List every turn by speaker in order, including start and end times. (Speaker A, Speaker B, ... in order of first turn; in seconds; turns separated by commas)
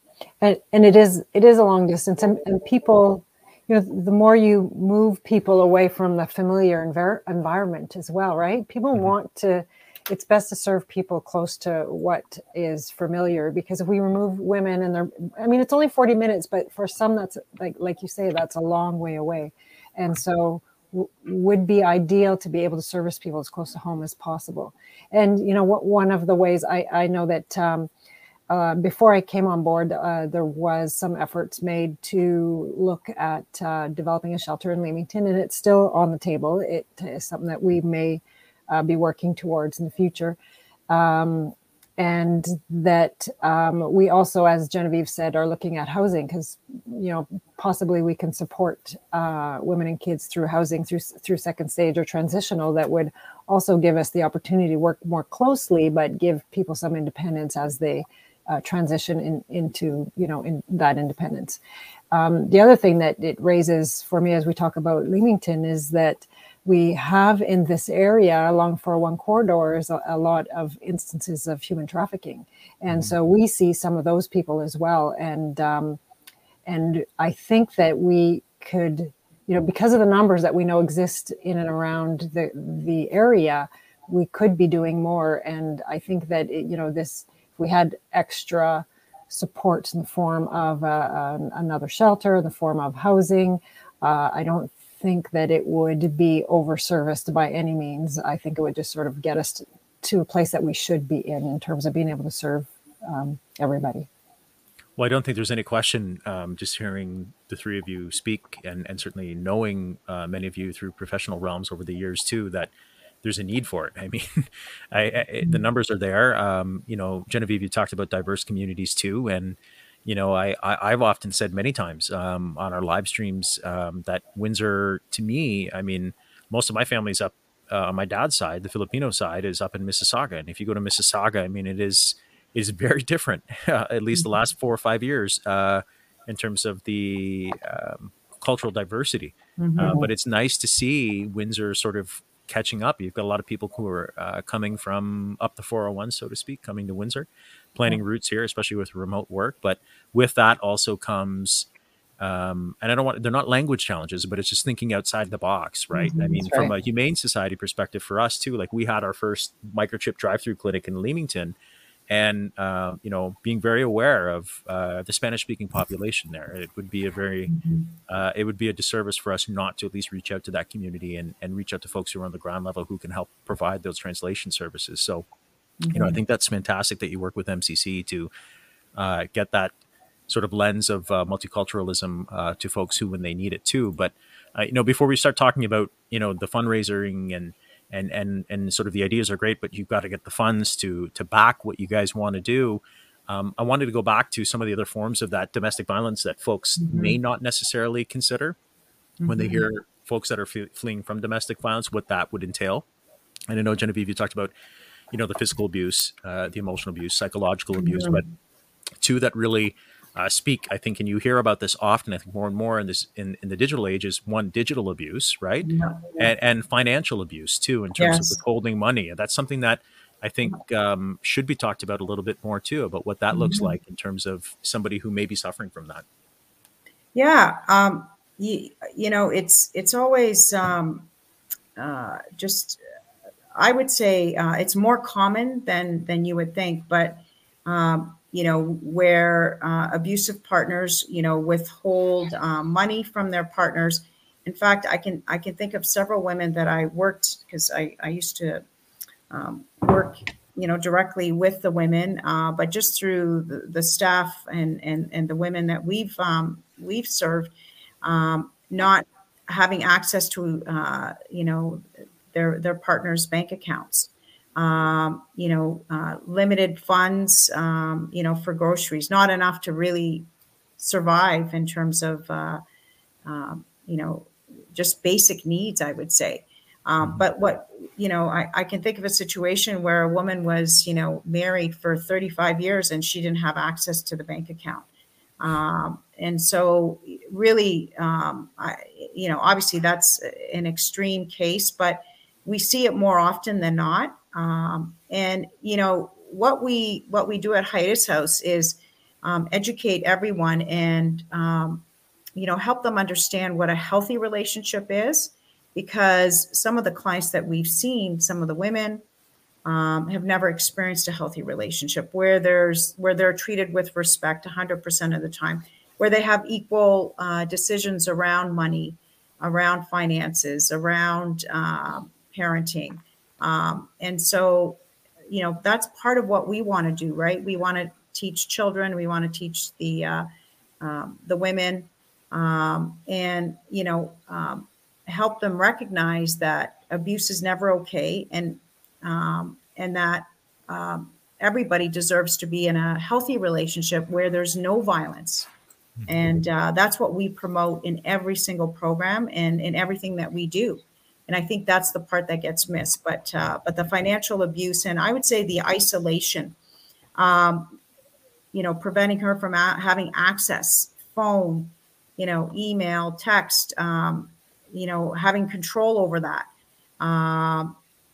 Speaker A: 0.4-27.9, Speaker A: 28.5-40.4, Speaker A: 40.9-61.6, Speaker A: 62.1-76.0, Speaker A: 76.7-104.1, Speaker B: 105.0-112.7, Speaker B: 113.2-151.7, Speaker C: 139.6-140.1, Speaker B: 152.2-161.5, Speaker C: 155.9-156.4, Speaker A: 156.2-156.7, Speaker B: 162.1-167.5, Speaker C: 167.5-167.9, Speaker B: 168.1-175.2, Speaker C: 175.8-176.2, Speaker B: 175.9-178.3, Speaker B: 178.9-179.7, Speaker B: 180.3-198.6, Speaker C: 196.8-197.2, Speaker C: 199.2-199.7, Speaker B: 199.2-202.8, Speaker B: 203.5-204.5, Speaker B: 205.1-208.2, Speaker C: 207.8-208.2, Speaker B: 209.0-226.0, Speaker C: 215.6-216.3, Speaker C: 218.0-218.4, Speaker C: 223.3-223.7, Speaker C: 227.1-231.1, Speaker C: 231.8-232.8, Speaker C: 233.5-248.6, Speaker C: 249.3-270.3, Speaker C: 270.8-272.6, Speaker C: 273.2-284.9, Speaker C: 285.4-301.8, Speaker C: 302.4-309.0, Speaker C: 309.6-330.2, Speaker C: 330.8-345.5, Speaker C: 346.1-356.6, Speaker C: 357.1-357.8, Speaker C: 358.5-366.5, Speaker C: 367.0-367.8